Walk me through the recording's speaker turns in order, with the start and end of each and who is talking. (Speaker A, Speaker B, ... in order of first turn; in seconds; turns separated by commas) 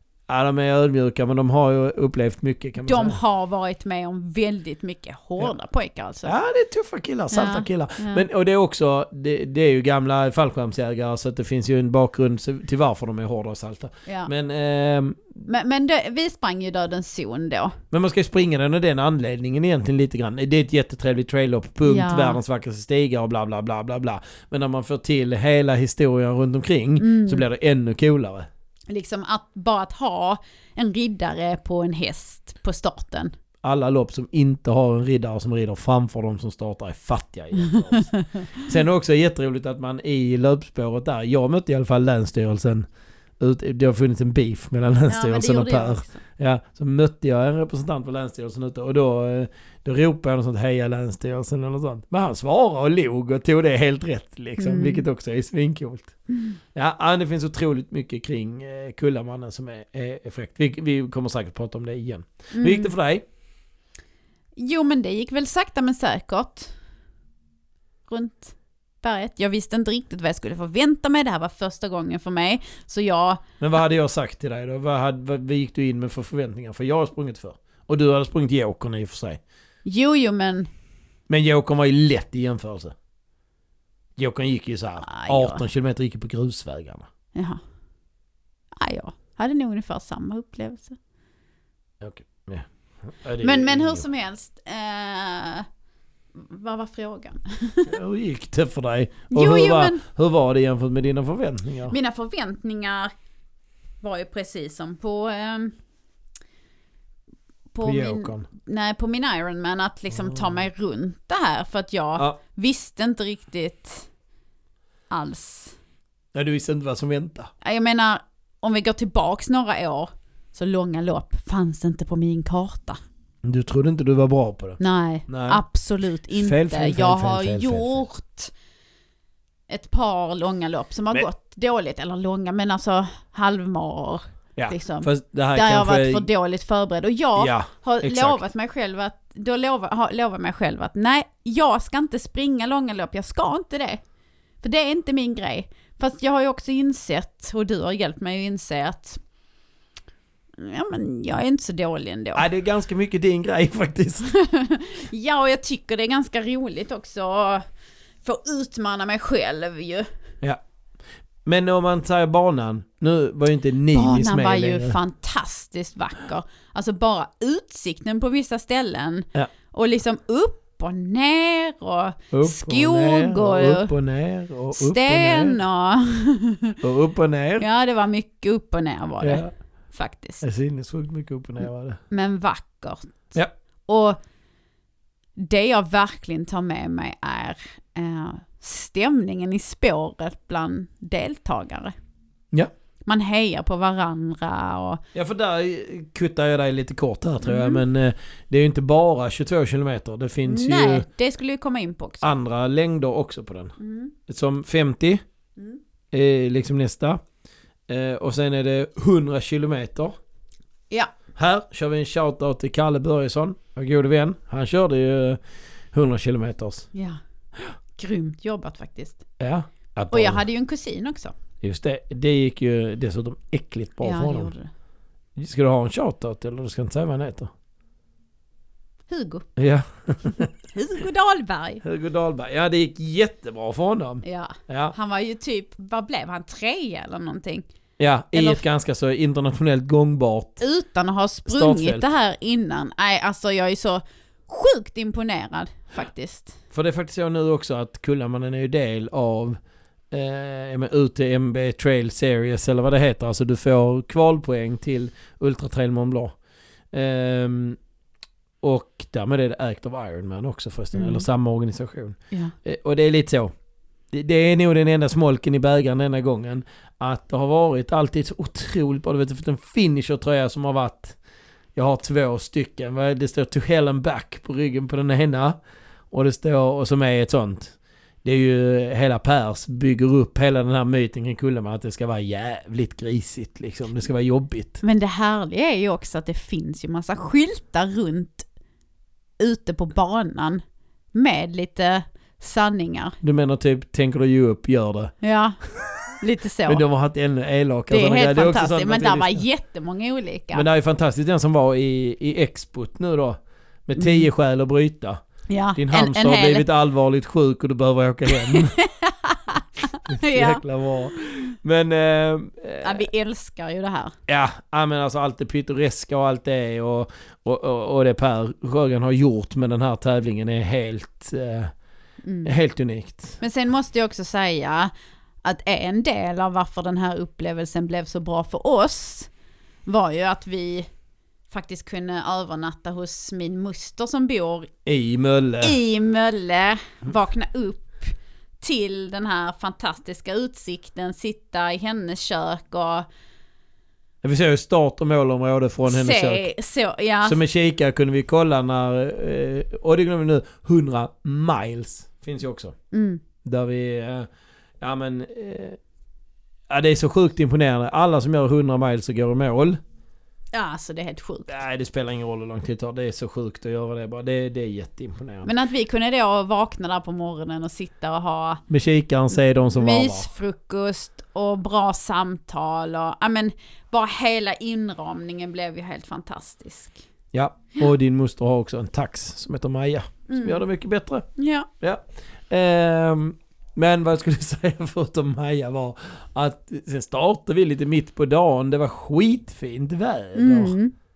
Speaker A: 0.3-3.2, Speaker B: 2.8-6.3, Speaker A: 6.2-15.4, Speaker B: 7.3-8.3, Speaker B: 14.1-14.3, Speaker B: 15.5-17.8, Speaker A: 17.9-28.5, Speaker B: 21.8-22.4, Speaker B: 27.0-27.4, Speaker B: 28.9-33.3, Speaker A: 33.6-42.9, Speaker B: 37.6-38.7, Speaker A: 43.4-56.1, Speaker B: 45.1-46.2, Speaker B: 54.6-55.0, Speaker A: 56.7-63.2, Speaker B: 62.5-62.9, Speaker B: 64.6-66.7, Speaker B: 68.1-73.4, Speaker A: 73.6-79.4, Speaker B: 79.8-80.7, Speaker A: 81.3-83.0, Speaker A: 84.2-87.1, Speaker B: 85.0-85.7, Speaker B: 87.3-87.6, Speaker B: 88.8-91.0, Speaker A: 92.0-94.0, Speaker B: 93.4-95.7, Speaker B: 96.4-97.9, Speaker A: 97.9-102.0, Speaker B: 99.3-100.0, Speaker B: 101.9-103.1, Speaker B: 104.0-105.7, Speaker B: 107.7-114.1, Speaker A: 107.8-108.5, Speaker A: 110.2-110.6, Speaker B: 115.1-115.8, Speaker A: 116.3-117.5, Speaker B: 117.6-123.0, Speaker A: 123.4-125.6, Speaker B: 124.8-128.5, Speaker A: 126.3-128.0, Speaker B: 129.7-144.0, Speaker A: 134.6-136.3, Speaker A: 137.4-138.4, Speaker B: 144.6-149.2, Speaker B: 150.6-152.4, Speaker A: 152.3-154.3, Speaker B: 154.3-157.7, Speaker B: 158.2-160.1, Speaker A: 161.4-165.0, Speaker B: 163.9-173.9, Speaker A: 172.3-175.6, Speaker B: 174.7-176.8, Speaker A: 176.8-177.7, Speaker B: 177.6-180.4, Speaker A: 179.2-179.5, Speaker A: 180.4-182.0, Speaker B: 182.1-183.3, Speaker B: 183.9-184.2, Speaker B: 185.4-191.9, Speaker B: 193.1-195.0, Speaker A: 195.1-201.1, Speaker B: 197.4-197.8, Speaker B: 200.4-202.3, Speaker A: 202.2-203.8, Speaker B: 203.8-204.1, Speaker A: 204.3-205.2, Speaker A: 206.1-207.2, Speaker A: 207.9-210.1, Speaker A: 211.4-215.4, Speaker A: 215.9-216.9, Speaker B: 216.9-217.2, Speaker B: 218.0-219.2, Speaker A: 219.4-220.4, Speaker B: 220.1-221.4, Speaker A: 221.6-224.5, Speaker B: 224.0-224.7, Speaker A: 225.4-227.5, Speaker B: 229.1-229.5, Speaker A: 229.6-230.5, Speaker B: 230.6-231.8, Speaker A: 231.8-235.0, Speaker B: 234.2-237.7, Speaker A: 238.0-240.6, Speaker B: 238.3-238.6, Speaker B: 240.6-246.6, Speaker A: 241.5-242.1, Speaker A: 246.7-249.6, Speaker A: 250.1-256.4, Speaker A: 256.9-257.8, Speaker A: 258.6-263.5, Speaker B: 260.9-261.3, Speaker A: 264.1-271.2, Speaker A: 271.8-275.6, Speaker A: 276.1-284.8, Speaker B: 284.8-288.5, Speaker B: 289.4-290.6, Speaker B: 291.1-293.2, Speaker A: 293.2-295.1, Speaker B: 295.2-295.6, Speaker B: 296.2-296.8, Speaker A: 296.7-299.4, Speaker B: 297.9-300.6, Speaker A: 300.5-305.2, Speaker B: 304.0-304.3, Speaker B: 305.5-306.6, Speaker A: 305.8-308.8, Speaker B: 308.3-310.6, Speaker A: 310.1-313.1, Speaker B: 312.8-314.1, Speaker A: 314.3-321.7, Speaker B: 322.2-322.5, Speaker A: 322.4-323.4, Speaker B: 323.4-324.9, Speaker B: 325.4-329.3, Speaker B: 329.9-330.9, Speaker B: 331.5-334.7, Speaker A: 334.9-335.8, Speaker B: 335.6-343.1, Speaker A: 344.2-346.5, Speaker B: 345.9-347.4, Speaker A: 347.2-352.8, Speaker B: 352.9-353.2, Speaker A: 353.4-354.3, Speaker A: 354.8-355.8, Speaker A: 356.7-359.8, Speaker B: 360.5-361.6, Speaker A: 361.5-365.5, Speaker B: 365.4-368.6, Speaker A: 368.7-370.3, Speaker B: 369.7-377.1, Speaker A: 377.3-381.3, Speaker B: 380.3-380.6, Speaker B: 381.4-381.7, Speaker A: 381.8-390.8, Speaker B: 390.3-390.9